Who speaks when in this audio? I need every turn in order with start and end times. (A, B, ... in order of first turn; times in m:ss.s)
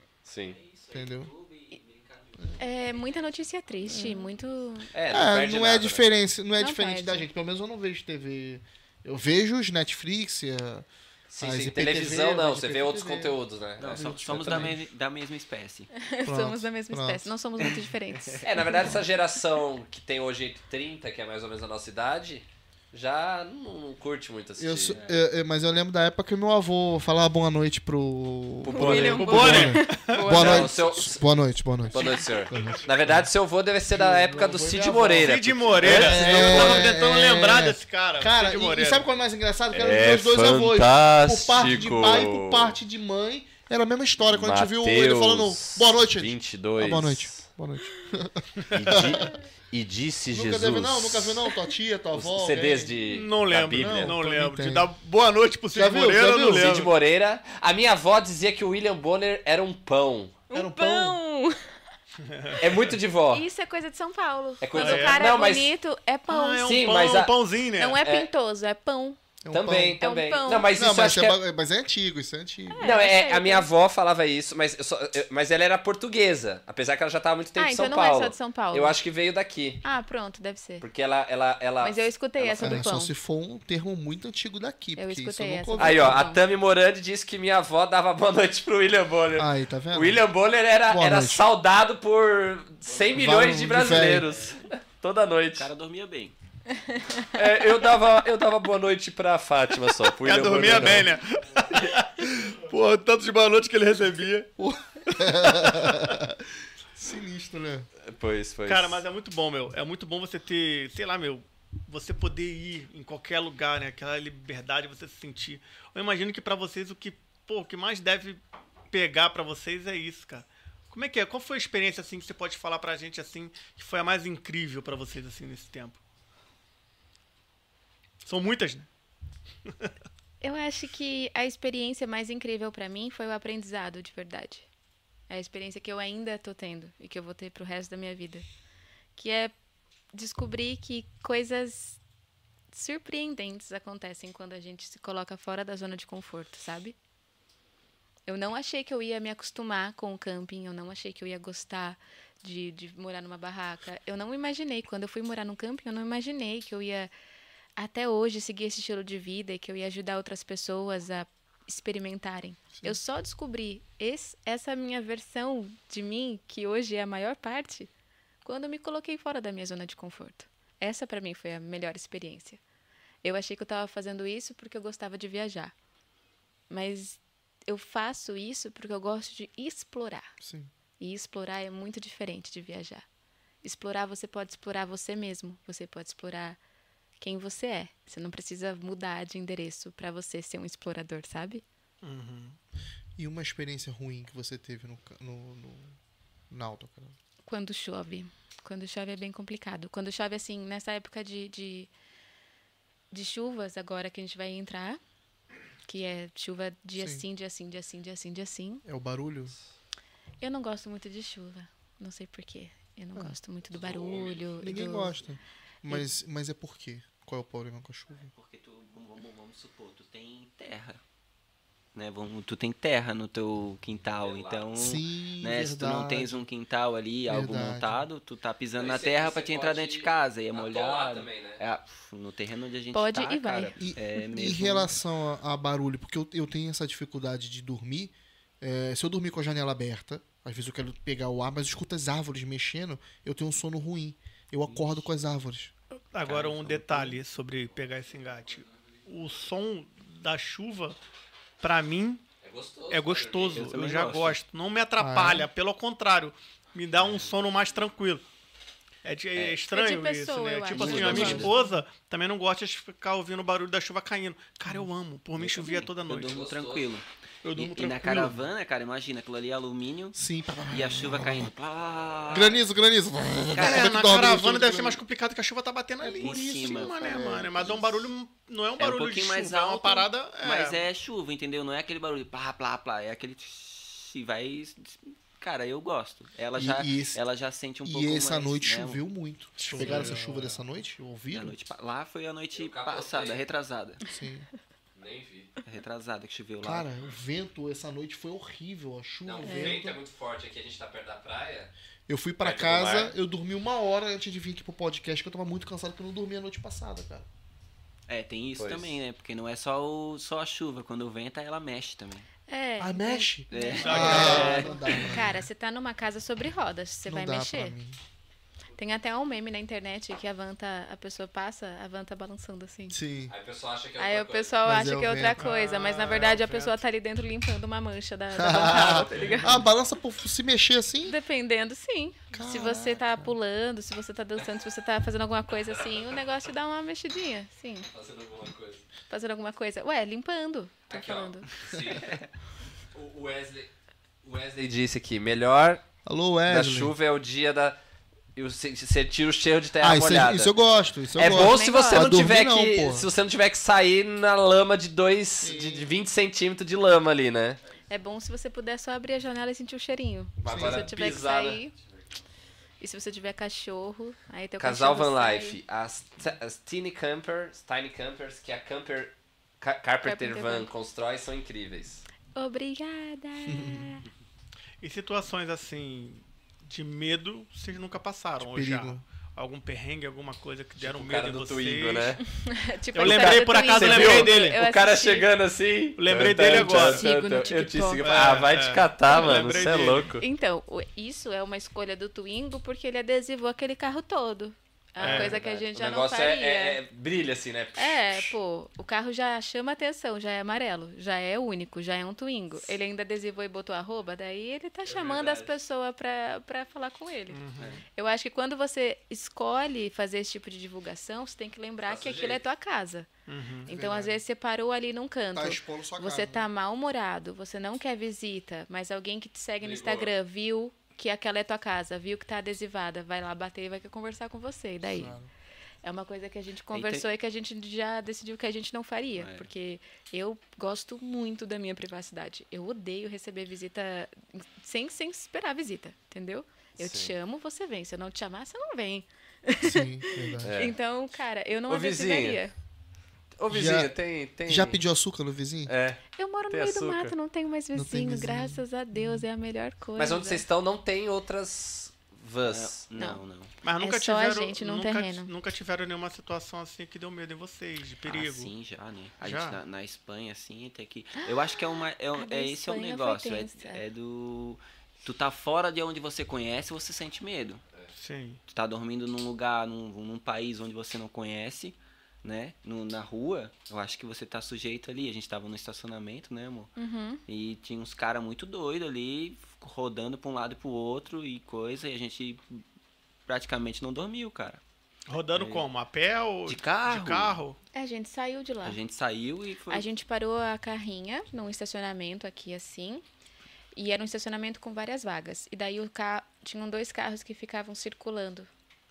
0:00.2-0:00.6 A
0:00.4-0:04.1 B
0:00.9-0:01.3 C
0:02.6-0:04.9 D
0:03.9-0:04.2 C
0:04.9-0:06.0 A
0:05.1-0:10.9 C
0:06.6-0:07.2 D
0:11.3-0:14.7 A
0:11.4-0:13.4 C
0:13.8-0:15.9 B
0:13.9-0:14.8 C
0:15.9-0:18.7 D
0:16.2-0:17.9 C
0:17.6-0:18.7 B
0:18.4-0:25.0 A
0:24.6-0:33.3 C
0:24.9-0:25.2 B
0:28.6-0:29.7 A
0:28.7-0:30.8 D
0:29.1-0:30.3 E
0:30.2-0:31.2 A
0:31.9-0:36.9 A
0:33.9-0:49.3 C
0:35.2-0:39.1 E
0:39.7-0:42.8 A
0:44.3-0:47.4 A
0:48.6-0:49.0 E
0:48.7-0:51.4 A
0:50.3-0:53.0 C
0:52.1-0:54.2 A
0:53.0-0:56.9 E
0:53.7-0:54.9 C
0:55.7-0:56.8 C
0:56.4-1:00.4 A
1:00.5-1:01.8 D
1:00.5-1:01.2 C
1:02.2-1:02.8 E
1:02.6-1:03.4 A
1:03.3-1:06.7 D
1:04.6-1:05.7 A
1:04.7-1:05.2 E
1:06.3-1:08.0 E
1:06.6-1:07.4 A
1:07.8-1:09.2 D
1:08.0-1:08.3 A
1:09.4-1:10.0 C
1:09.5-1:11.4 A
1:10.0-1:10.7 D
1:10.7-1:12.9 C
1:12.7-1:13.7 D
1:12.8-1:19.8 A
1:17.6-1:19.0 D
1:19.8-1:20.8 D
1:20.8-1:22.8 A
1:21.8-1:23.1 D
1:22.6-1:26.2 C
1:25.0-1:26.4 D
1:25.8-1:35.7 A
1:29.4-1:30.2 C
1:30.9-1:31.5 C
1:33.1-1:34.3 C
1:35.6-1:36.3 B
1:36.7-1:37.3 D
1:37.3-1:41.1 A
1:40.2-1:44.5 E
1:44.6-1:46.4 C
1:46.9-1:47.9 C
1:48.0-1:49.0 A
1:48.6-2:06.0 E
2:08.2-2:08.9 E
2:09.6-2:09.9 E
2:10.4-2:14.7 D
2:15.3-2:18.4 D
2:19.2-2:19.5 D
2:20.1-2:22.0 D
2:22.7-2:27.0 D
2:28.3-2:37.1 D
2:37.8-2:47.9 D
2:48.4-2:52.6 D
2:53.2-2:55.7 D
2:56.7-3:00.3 D
3:00.4-3:00.7 C
3:01.0-3:03.0 D
3:03.6-3:06.6 D
3:07.2-3:11.6 D
3:12.0-3:12.6 E
3:13.2-3:16.0 C
3:16.5-3:17.1 C
3:17.4-3:21.9 D
3:23.1-3:25.0 D
3:25.8-3:28.8 D
3:27.0-3:27.2 C
3:28.8-3:29.6 C
3:30.4-3:35.2 D
3:34.6-3:38.3 C
3:38.3-3:41.0 B
3:41.9-3:54.9 B
3:44.2-3:44.7 A
3:44.8-3:46.4 C
3:47.3-3:48.0 C
3:48.8-3:51.6 A
3:52.9-3:53.8 D
3:53.8-4:05.7 C
4:04.6-4:05.0 B
4:06.1-4:11.0 E
4:06.2-4:07.0 B
4:06.7-4:07.2 C
4:11.6-4:12.2 E
4:12.4-4:13.7 A
4:12.9-4:18.2 E
4:13.5-4:14.4 B
4:15.0-4:15.5 C
4:19.0-4:26.4 E
4:19.7-4:21.7 D
4:20.7-4:21.5 B
4:20.8-4:21.5 C
4:25.4-4:30.2 B
4:26.2-4:26.9 A
4:27.4-4:28.4 E
4:30.1-4:31.5 C
4:30.7-4:32.6 B
4:32.3-4:35.0 C
4:33.6-4:40.8 E
4:33.6-4:33.8 B
4:36.0-4:38.1 C
4:36.2-4:37.4 B
4:38.8-4:49.0 B
4:46.5-4:47.2 C
4:47.8-4:51.6 C
4:49.6-4:50.6 E
4:49.7-4:50.2 B
4:51.3-4:54.0 B
4:52.5-4:53.4 A
4:54.1-4:54.5 C
4:55.0-4:55.5 A
4:55.6-4:56.9 B
4:56.6-5:00.0 C
4:59.2-5:01.7 A
4:59.4-4:59.8 D
5:02.1-5:07.2 C
5:02.4-5:03.1 A
5:08.1-5:12.2 B
5:08.5-5:09.0 A
5:12.5-5:17.8 D
5:12.8-5:15.4 C
5:13.5-5:15.2 B
5:13.8-5:14.7 E
5:17.0-5:18.0 C
5:18.8-5:23.0 D
5:22.9-5:23.3 C
5:23.3-5:24.6 A
5:24.0-5:29.6 D
5:24.6-5:25.4 C
5:25.4-5:26.8 E
5:28.3-5:31.2 C
5:31.0-5:37.9 D
5:32.3-5:33.3 C
5:37.9-5:38.8 A
5:39.1-5:41.5 D
5:40.9-5:42.2 A
5:42.9-5:43.7 A
5:44.2-5:45.8 A
5:46.0-5:46.9 C
5:46.5-5:47.8 A
5:48.4-5:50.5 A
5:49.8-5:53.1 C
5:51.1-5:57.6 A
5:51.2-5:52.1 D
5:55.4-5:55.9 C
5:57.9-6:01.7 D
6:00.4-6:01.6 A
6:00.4-6:00.9 C
6:02.8-6:05.6 D
6:04.6-6:12.0 A
6:10.0-6:10.7 D
6:12.3-6:14.0 D
6:13.4-6:13.9 C
6:14.8-6:22.2 E
6:18.4-6:19.0 C
6:20.8-6:22.2 A
6:22.4-6:25.3 D
6:22.9-6:24.6 E
6:23.0-6:30.2 A
6:26.0-6:27.1 E
6:26.3-6:28.2 D
6:28.0-6:30.1 E
6:29.2-6:29.5 D
6:30.2-6:36.8 D
6:35.0-6:38.3 A
6:35.0-6:35.4 E
6:37.8-6:47.4 D
6:44.8-6:45.5 A
6:47.3-6:47.8 E
6:48.0-6:53.1 D
6:51.9-6:52.4 A
6:53.3-6:53.7 E
6:53.6-7:05.2 D
6:53.7-6:54.2 C
6:55.3-6:56.5 C
6:59.6-7:00.1 A
7:04.8-7:05.3 C
7:05.8-7:22.5 D
7:06.7-7:07.0 B
7:09.2-7:09.5 B
7:16.8-7:17.1 A
7:19.6-7:20.7 C
7:20.4-7:20.8 A
7:21.7-7:22.4 A
7:23.4-7:24.8 A
7:23.5-7:23.9 C
7:24.4-7:25.7 C
7:25.7-7:27.1 A
7:26.2-7:30.4 D
7:27.7-7:29.2 C
7:30.0-7:32.8 A
7:32.4-7:33.5 B
7:33.0-7:33.2 D
7:33.6-7:38.5 E
7:33.8-7:35.3 D
7:38.0-7:47.6 B
7:39.2-7:39.6 E
7:41.2-7:43.8 D
7:48.0-7:48.4 E
7:48.5-7:56.7 B
7:56.8-7:57.2 D
7:57.2-8:02.6 B
8:03.3-8:04.6 B
8:05.1-8:07.6 E
8:05.3-8:05.7 B
8:06.5-8:07.4 B
8:07.7-8:08.8 D
8:08.6-8:09.8 B
8:09.7-8:13.0 D
8:13.7-8:18.5 D